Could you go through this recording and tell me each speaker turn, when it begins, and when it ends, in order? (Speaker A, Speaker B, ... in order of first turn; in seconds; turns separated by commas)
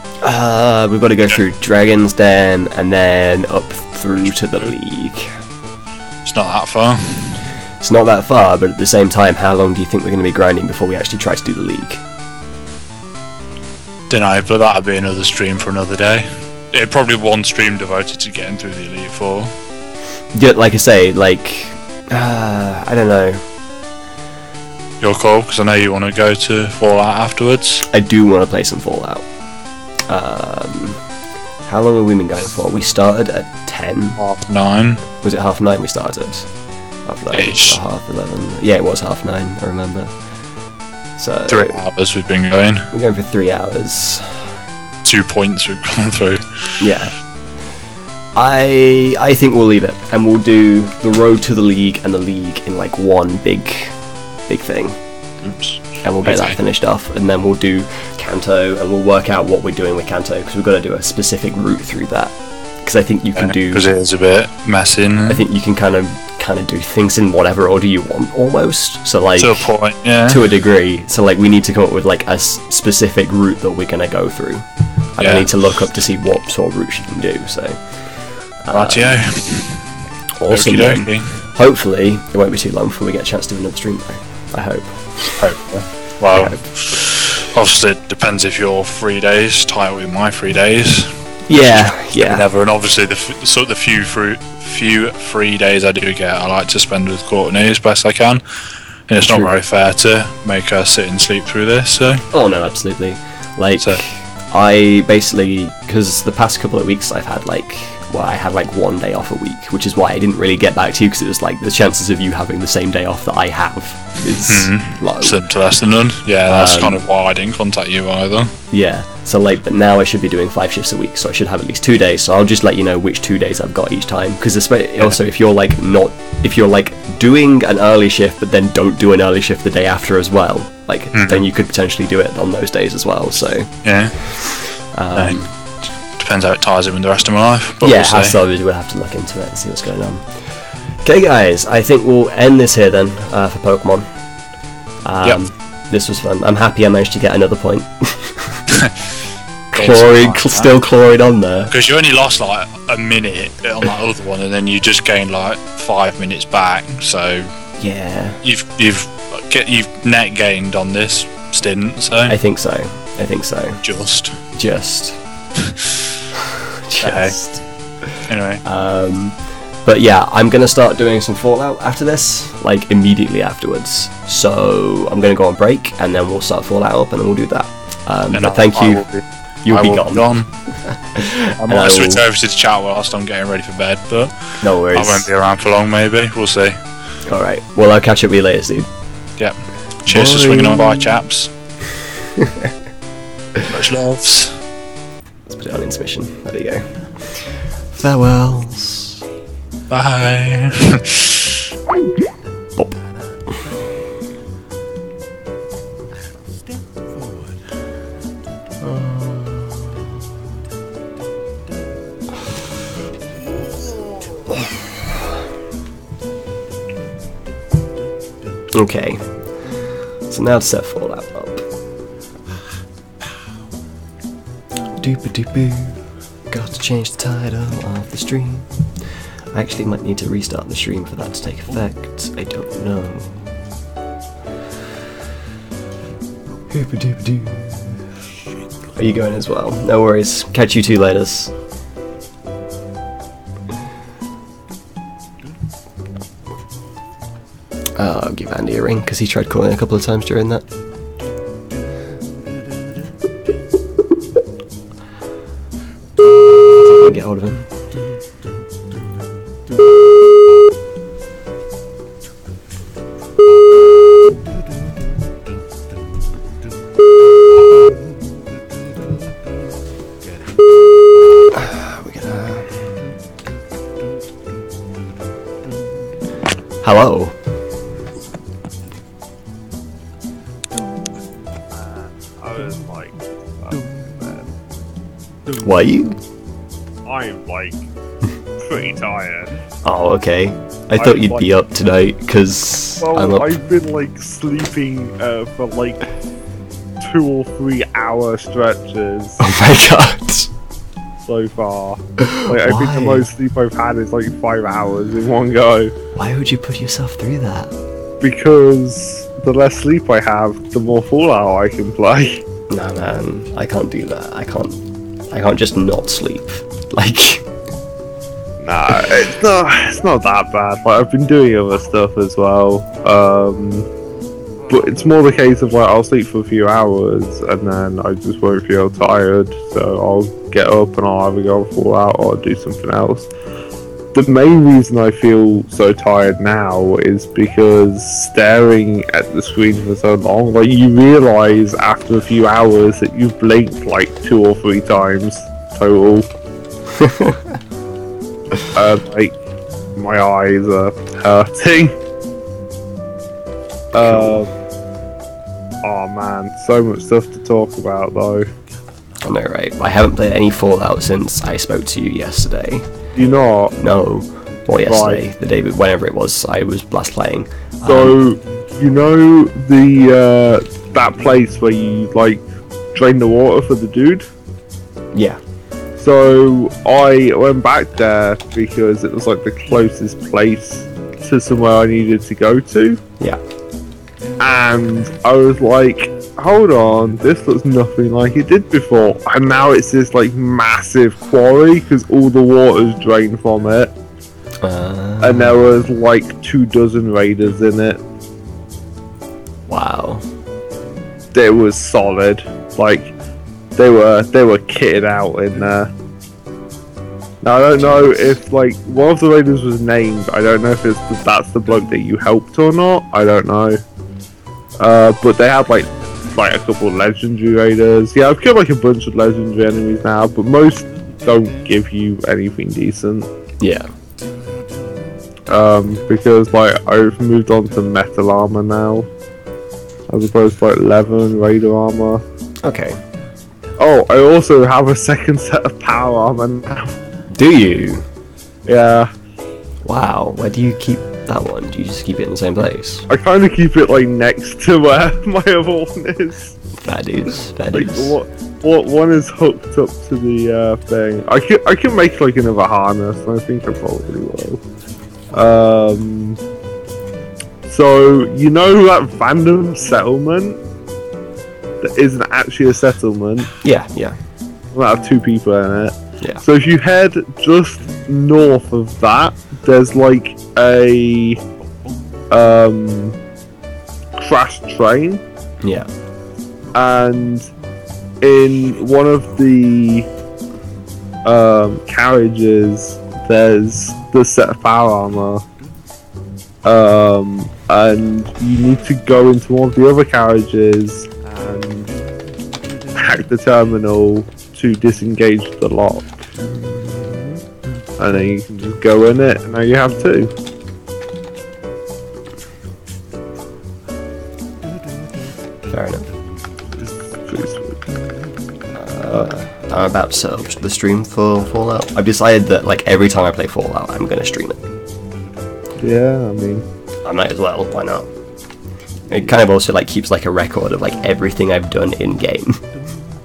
Speaker A: 0.2-5.4, Speaker B: 4.2-4.7, Speaker B: 6.2-7.4, Speaker A: 7.8-12.0, Speaker B: 14.1-19.5, Speaker A: 20.3-23.4, Speaker B: 25.0-27.8, Speaker A: 27.9-29.2, Speaker A: 30.1-31.0, Speaker A: 31.7-34.2, Speaker B: 34.2-35.0, Speaker A: 35.2-36.5, Speaker A: 37.0-40.1, Speaker B: 37.3-37.8, Speaker A: 41.2-41.8, Speaker B: 41.5-42.9, Speaker A: 42.9-44.4, Speaker B: 45.0-46.8, Speaker A: 46.8-47.1, Speaker A: 48.4-53.9, Speaker A: 54.5-55.0, Speaker B: 55.4-56.6, Speaker A: 56.0-63.9, Speaker B: 63.4-65.4, Speaker A: 65.3-69.7, Speaker B: 69.4-70.4, Speaker A: 70.3-79.2, Speaker B: 75.2-75.5, Speaker B: 78.7-79.8, Speaker A: 80.4-85.4, Speaker B: 80.5-81.3, Speaker B: 85.4-98.4, Speaker A: 86.3-86.6, Speaker A: 91.5-92.4, Speaker B: 99.1-102.2, Speaker A: 99.2-99.5, Speaker A: 102.3-115.4, Speaker B: 114.4-118.5, Speaker A: 116.5-117.0, Speaker A: 118.7-135.5, Speaker B: 131.1-131.4, Speaker B: 133.8-134.3, Speaker B: 135.1-135.4, Speaker B: 136.0-138.3, Speaker A: 137.8-144.1, Speaker A: 145.0-148.6, Speaker B: 148.8-149.1, Speaker B: 149.7-150.7, Speaker A: 149.7-151.7, Speaker B: 151.7-157.5, Speaker A: 157.8-158.4, Speaker B: 158.4-162.3, Speaker A: 162.3-163.8, Speaker B: 163.8-164.4, Speaker A: 164.5-165.2, Speaker B: 165.6-166.1, Speaker A: 166.3-179.0, Speaker B: 167.0-167.3, Speaker B: 168.3-168.6, Speaker B: 178.3-180.5, Speaker A: 179.6-180.3, Speaker A: 180.8-182.2, Speaker B: 181.6-186.8, Speaker A: 184.6-185.3, Speaker A: 187.3-188.9, Speaker B: 189.4-191.5, Speaker A: 190.1-191.2, Speaker A: 192.3-192.7, Speaker B: 193.6-194.6, Speaker A: 195.5-199.2, Speaker B: 199.9-201.7, Speaker A: 202.8-203.7, Speaker A: 208.8-210.0, Speaker A: 214.3-214.9, Speaker A: 218.7-219.2, Speaker A: 220.3-221.6, Speaker A: 225.0-228.7, Speaker A: 229.5-233.6, Speaker A: 236.7-238.0, Speaker A: 238.9-241.5, Speaker A: 248.0-250.6, Speaker A: 256.9-257.7, Speaker A: 271.5-272.7, Speaker A: 276.8-277.3, Speaker C: 281.8-284.5, Speaker A: 285.6-286.2, Speaker C: 287.1-287.9, Speaker C: 288.6-289.5, Speaker A: 289.8-293.4, Speaker C: 290.9-291.5, Speaker C: 293.0-296.1, Speaker C: 297.0-299.4, Speaker A: 299.4-300.5, Speaker C: 301.2-305.9, Speaker A: 302.2-303.3, Speaker A: 306.1-307.7, Speaker C: 308.2-312.4, Speaker A: 312.7-317.4, Speaker C: 318.6-323.9, Speaker C: 324.7-333.3, Speaker C: 334.1-346.3, Speaker A: 346.9-347.5, Speaker C: 348.7-349.4, Speaker C: 349.9-351.9, Speaker C: 353.9-354.5, Speaker A: 353.9-354.4, Speaker C: 355.8-358.5, Speaker A: 359.2-362.9, Speaker C: 363.1-363.8, Speaker A: 363.8-368.1, Speaker C: 364.9-365.2, Speaker C: 367.8-372.4, Speaker C: 372.9-374.2, Speaker A: 375.1-375.4, Speaker C: 376.0-383.0, Speaker C: 384.4-393.9, Speaker A: 394.6-395.7, Speaker C: 395.2-398.0, Speaker A: 399.7-400.2, Speaker C: 401.3-403.1, Speaker C: 403.8-405.9, Speaker C: 407.4-413.8, Speaker C: 414.8-423.3, Speaker A: 423.6-423.9, Speaker C: 425.5-429.1, Speaker C: 430.1-432.2, Speaker A: 432.6-433.0, Speaker C: 433.8-437.0, Speaker A: 437.3-438.0, Speaker C: 438.6-439.1, Speaker A: 439.8-443.1, Speaker C: 443.1-446.6, Speaker A: 446.8-448.1, Speaker C: 447.7-454.6, Speaker C: 455.3-456.4, Speaker C: 457.6-460.6, Speaker C: 461.8-463.5, Speaker A: 463.6-464.2, Speaker C: 464.7-471.4, Speaker C: 472.3-473.2, Speaker C: 474.2-475.2, Speaker A: 475.6-475.9, Speaker C: 476.7-477.5, Speaker C: 478.2-480.1, Speaker C: 481.2-485.4, Speaker C: 486.6-491.9, Speaker C: 492.9-496.3, Speaker C: 498.0-500.3, Speaker A: 505.7-506.1, Speaker C: 507.2-507.8, Speaker A: 508.7-514.7, Speaker C: 515.8-516.7, Speaker A: 517.0-518.1, Speaker A: 519.1-522.6